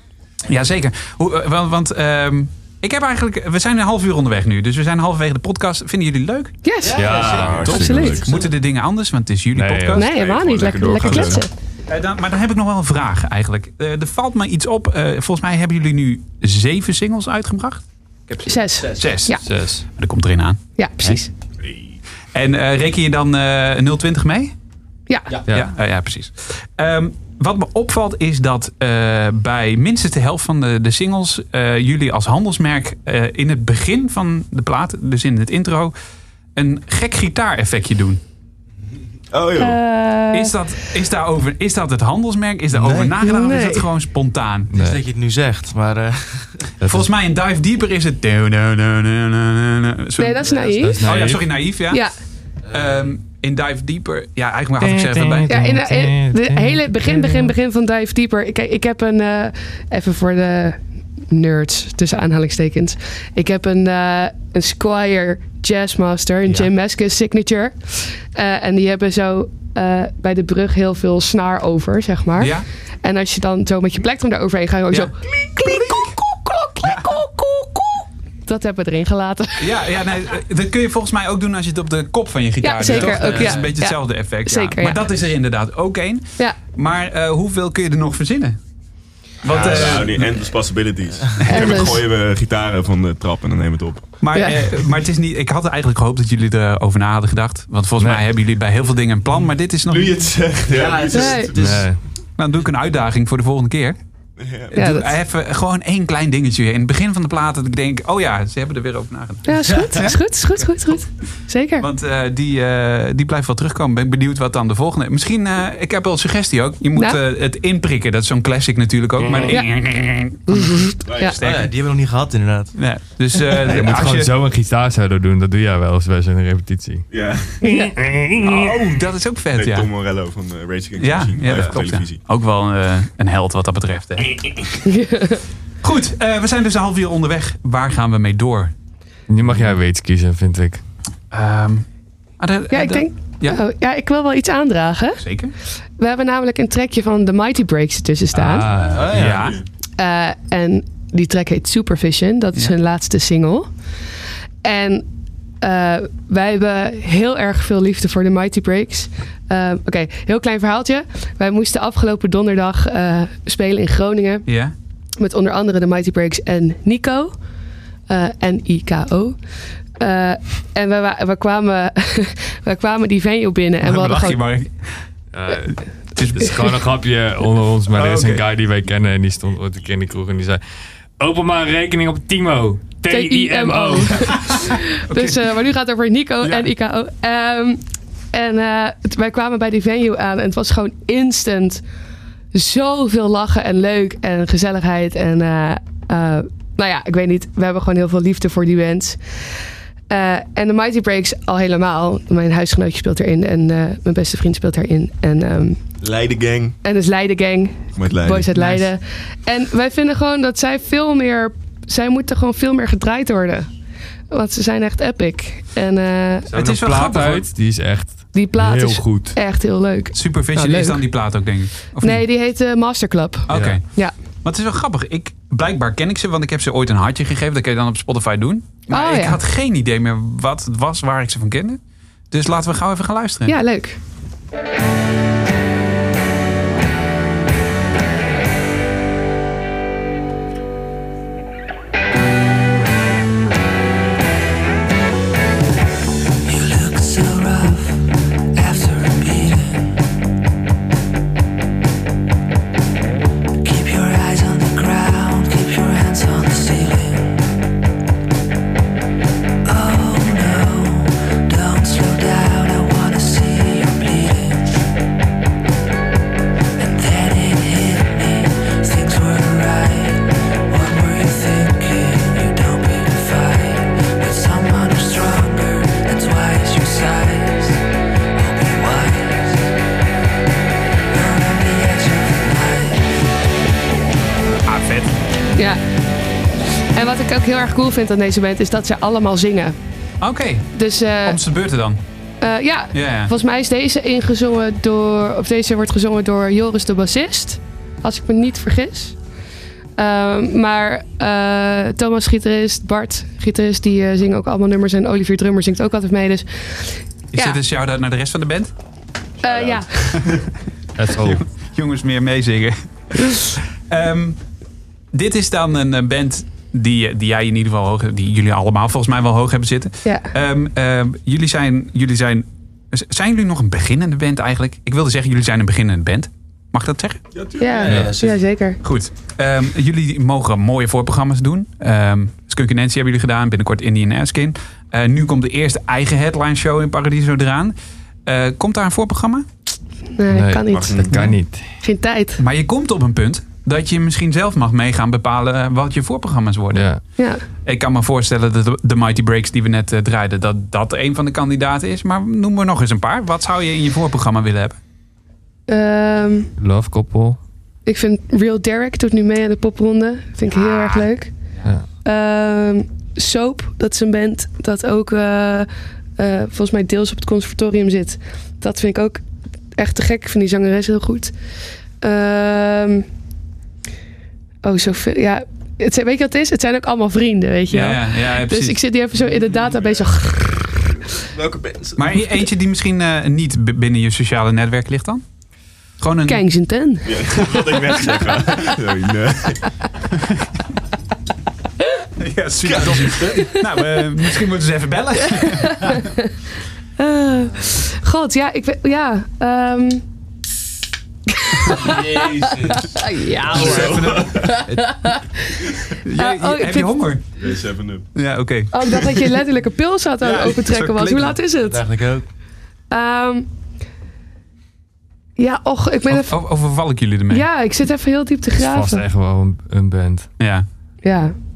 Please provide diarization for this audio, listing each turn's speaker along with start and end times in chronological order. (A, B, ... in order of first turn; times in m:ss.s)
0:00.5-0:06.6 A
0:06.6-0:07.1 B
0:06.8-0:07.4 C
0:06.9-0:08.0 D
0:07.0-0:08.5 E
0:07.4-0:10.1 A
0:07.6-0:08.2 B
0:09.5-0:10.0 D
0:09.9-0:11.5 B
0:10.0-0:11.4 E
0:10.8-0:21.2 A
0:18.4-0:19.4 B
0:19.4-0:19.8 D
0:20.8-0:21.3 B
0:21.6-0:22.0 E
0:22.3-0:24.5 A
0:25.4-0:25.7 D
0:25.5-0:35.9 A
0:36.5-0:38.2 A
0:39.3-0:39.8 E
0:39.6-0:40.6 B
0:40.3-0:44.7 A
0:42.7-0:43.1 C
0:43.2-0:43.8 B
0:44.7-0:45.0 D
0:44.7-0:46.7 C
0:46.8-0:47.1 D
0:46.8-0:52.1 A
0:50.2-0:52.1 B
0:50.8-0:51.4 D
0:52.7-0:53.0 C
0:52.7-0:55.5 A
0:54.8-0:57.5 D
0:55.5-1:19.7 B
1:12.4-1:12.6 A
1:15.7-1:16.1 A
1:19.6-1:28.6 A
1:22.6-1:25.0 B
1:22.9-1:23.6 C
1:29.4-1:30.4 A
1:29.4-1:34.1 E
1:31.4-1:32.0 B
1:34.2-1:40.2 A
1:34.3-1:34.6 B
1:38.0-1:38.2 D
1:39.9-1:41.8 E
1:40.7-1:41.9 C
1:41.1-1:41.5 B
1:41.6-1:42.0 D
1:42.4-1:44.0 A
1:44.4-1:44.7 E
1:44.7-1:50.7 A
1:44.7-1:45.1 B
1:49.4-1:51.8 B
1:51.8-2:01.7 A
2:00.5-2:01.4 B
2:01.0-2:01.4 E
2:01.4-2:02.7 C
2:02.8-2:04.3 A
2:03.6-2:07.1 D
2:07.1-2:07.6 E
2:07.6-2:09.0 D
2:07.6-2:07.9 B
2:08.4-2:09.9 A
2:09.5-2:12.2 E
2:11.0-2:14.6 A
2:14.8-2:15.4 B
2:15.8-2:18.7 A
2:19.3-2:20.8 D
2:21.3-2:21.8 A
2:22.4-2:23.6 A
2:22.7-2:25.2 B
2:25.2-2:25.5 A
2:26.0-2:28.7 B
2:28.3-2:29.4 D
2:28.9-2:29.4 C
2:29.1-2:29.6 A
2:29.2-2:29.6 E
2:30.0-2:33.7 B
2:34.6-2:35.1 B
2:35.6-2:44.4 B
2:44.5-2:44.7 A
2:45.2-2:47.3 B
2:48.1-2:49.4 B
2:50.0-2:54.4 B
2:53.8-2:55.0 A
2:55.3-3:00.6 D
2:55.6-2:56.8 A
2:57.9-2:58.4 A
3:01.2-3:04.4 D
3:03.1-3:11.8 B
3:04.5-3:05.6 A
3:06.4-3:06.7 A
3:12.5-3:19.4 B
3:20.1-3:25.8 B
3:26.0-3:26.8 E
3:26.8-3:33.7 B
3:27.9-3:28.5 E
3:28.6-3:28.8 A
3:34.3-3:36.5 B
3:36.5-3:39.4 D
3:36.5-3:37.5 A
3:38.3-3:41.0 B
3:40.1-3:42.2 A
3:42.0-3:44.1 B
3:43.5-3:51.8 A
3:43.5-3:43.8 D
3:48.9-3:49.4 B
3:52.3-3:53.5 A
3:53.5-3:54.0 B
4:06.4-4:10.0 F
4:13.6-4:17.4 F
4:19.6-4:24.7 F
4:26.8-4:37.8 F
4:38.3-4:39.6 F
4:41.1-4:43.1 F
4:44.6-4:45.2 A
4:45.5-4:45.8 B
4:46.9-4:49.7 B
4:50.2-4:52.0 A
4:50.7-4:51.4 B
4:52.4-4:59.2 B
4:52.9-4:53.3 A
5:00.0-5:07.6 B
5:07.3-5:08.7 A
5:09.4-5:10.2 B
5:09.4-5:10.4 E
5:11.0-5:11.4 D
5:11.1-5:14.4 A
5:15.1-5:27.2 A
5:20.0-5:20.3 B
5:27.3-5:28.0 E
5:27.6-5:28.8 B
5:27.8-5:28.4 C
5:28.8-5:37.7 A
5:38.2-5:39.4 A
5:40.2-5:42.4 B
5:40.3-5:41.7 D
5:40.7-5:41.2 E
5:42.4-5:47.1 A
5:46.7-5:47.0 D
5:47.2-5:47.4 B
5:47.6-5:54.8 A
5:55.7-5:56.5 B
5:56.6-5:57.4 D
5:57.8-6:01.3 B
6:00.5-6:01.6 A
6:02.0-6:09.2 B
6:09.7-6:11.3 B
6:12.0-6:13.0 B
6:14.6-6:20.8 B
6:17.7-6:18.8 A
6:19.5-6:20.2 E
6:21.2-6:22.1 E
6:22.0-6:25.2 A
6:26.0-6:26.4 A
6:26.3-6:27.6 B
6:27.0-6:29.9 E
6:32.2-6:36.0 A
6:32.6-6:33.4 E
6:33.4-6:33.6 B
6:35.4-6:36.3 B
6:37.0-6:40.0 B
6:41.3-6:47.0 B
6:41.8-6:42.9 C
6:43.4-6:44.6 E
6:43.4-6:44.3 A
6:43.6-6:43.9 C
6:44.6-6:44.9 C
6:46.0-6:47.2 A
6:47.4-6:48.1 E
6:48.1-6:49.1 A
6:48.7-6:51.8 B
6:50.2-6:51.4 A
6:51.6-6:52.2 C
6:52.9-6:53.5 B
6:55.4-6:56.4 B
6:56.1-6:57.4 A
6:57.3-6:59.0 B
6:58.6-7:00.3 D
7:00.4-7:00.6 A
7:01.0-7:01.3 B